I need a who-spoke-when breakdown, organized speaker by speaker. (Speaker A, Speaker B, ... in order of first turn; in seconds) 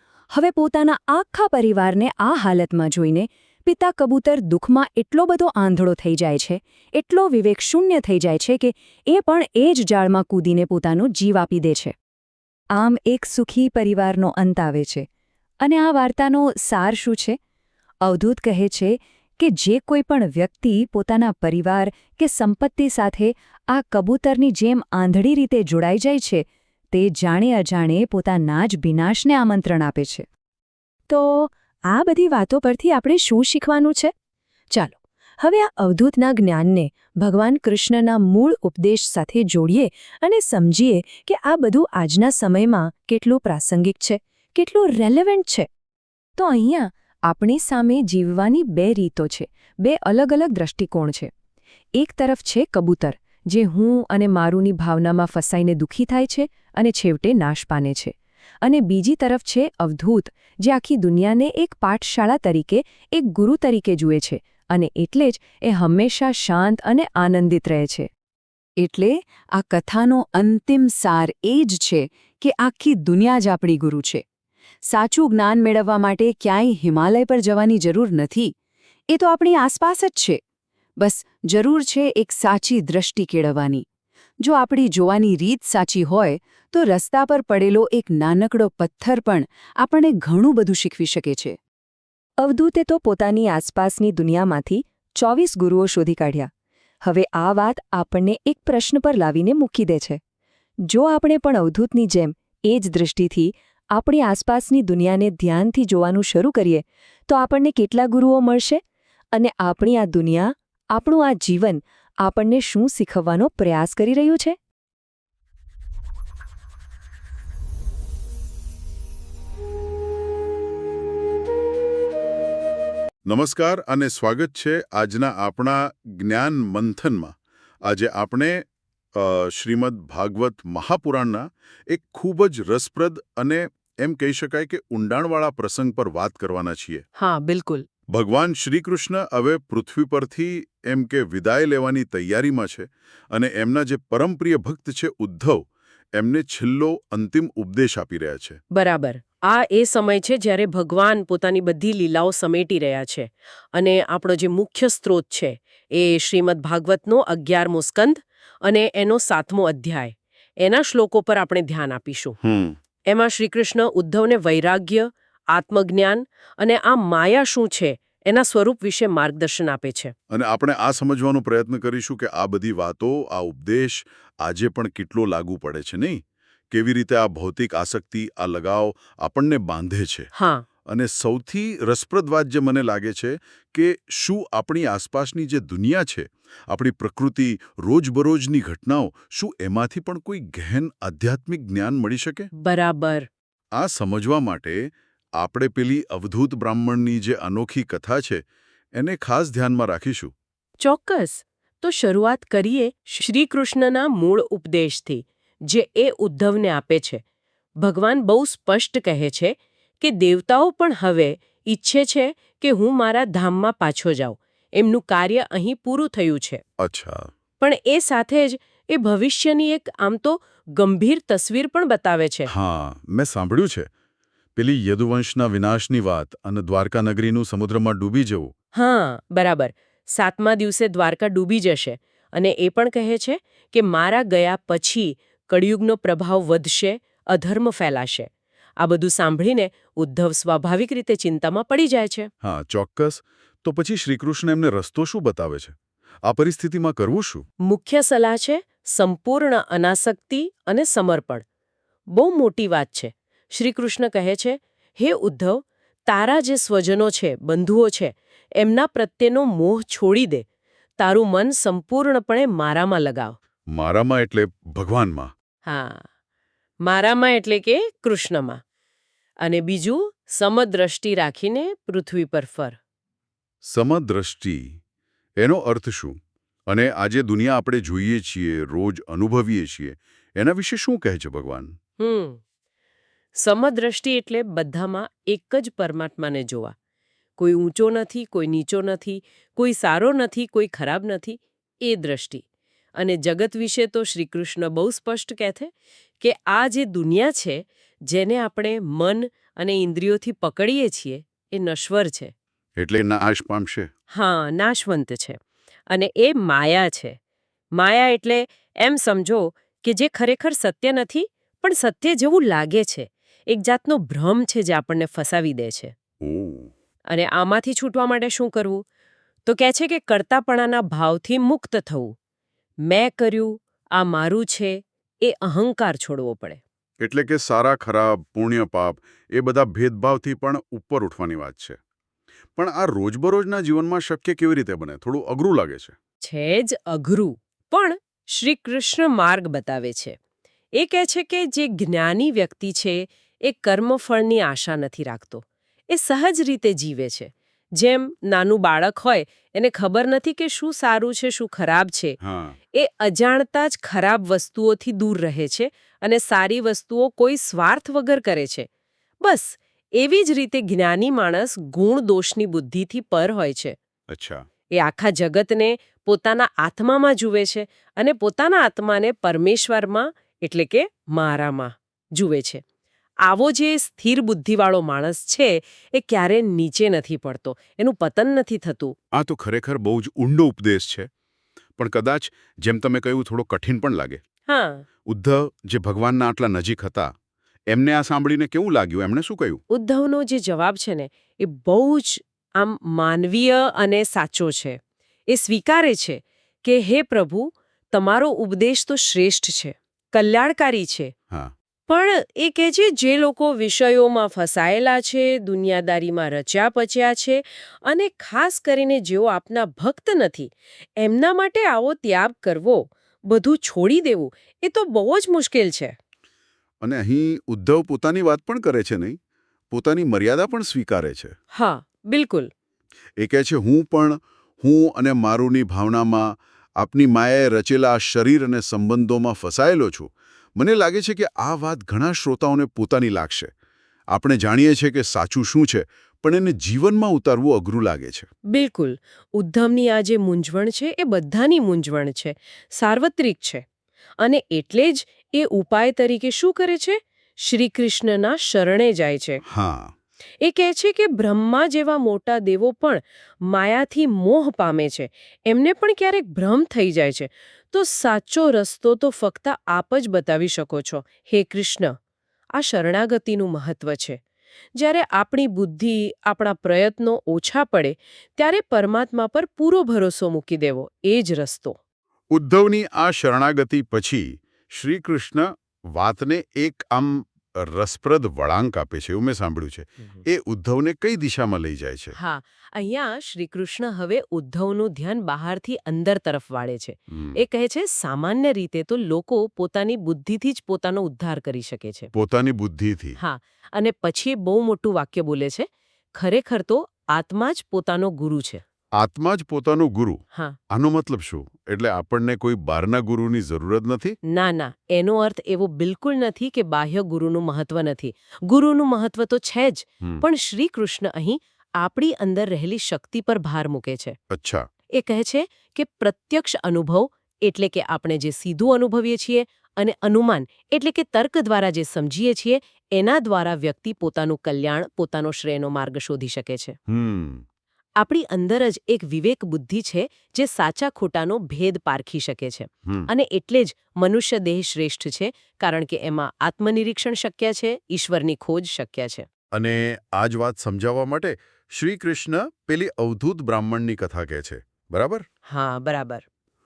Speaker A: 0.3-11.9, 12.7-15.1, 15.6-17.4, 18.0-30.3, 31.1-34.1, 34.7-45.7, 46.4-51.3, 52.0-68.1, 68.8-74.2, 74.8-78.5, 79.1-80.4, 81.0-83.8, 84.4-91.6, 92.4-96.5, 97.0-100.2, 100.9-108.8, 109.3-114.5
Speaker B: 123.2-127.3, 127.8-128.6, 129.1-137.0, 138.1-145.6, 146.1-148.6, 162.4-162.8, 170.3-180.3, 180.8-192.5, 193.8-198.4, 198.9-200.3, 216.8-217.3, 222.5-223.9, 224.6-228.5, 242.4-247.4, 263.7-265.3, 273.6-274.8, 275.4-276.2, 276.7-281.7, 302.8-303.9, 316.2-316.7, 327.0-331.8, 332.6-335.9, 352.2-352.6, 364.1-364.4, 379.1-381.1, 381.8-384.2, 385.1-387.1, 387.7-389.6, 416.8-419.2, 419.7-421.3, 423.2-433.5, 434.1-438.3, 449.4-449.9, 472.3-482.1, 487.1-487.4, 492.1-493.2, 498.9-504.2, 514.3-514.6, 526.9-527.4, 539.5-545.2
Speaker C: 137.2-137.8, 148.7-162.4, 163.1-170.1, 180.3-180.6, 192.6-193.3, 200.8-207.2, 207.8-216.6, 217.6-222.5, 228.7-242.3, 247.6-251.4, 252.1-260.4, 261.0-263.4, 265.6-266.1, 266.8-268.6, 269.4-272.8, 282.0-282.4, 283.4-286.7, 287.4-292.4, 293.0-302.3, 304.1-305.4, 305.9-307.2, 307.8-315.9, 317.1-318.8, 319.4-322.1, 322.9-326.6, 336.2-340.1, 340.8-352.2, 352.7-358.7, 359.2-363.8, 364.7-372.6, 373.2-378.9, 384.5-384.8, 389.7-401.1, 401.9-415.9, 421.5-422.5, 438.5-443.6, 444.2-449.4, 450.4-461.9, 462.5-464.2, 464.8-471.8, 482.1-492.1, 493.2-498.6, 504.3-514.1, 514.9-526.8, 528.0-539.2, 545.5-546.2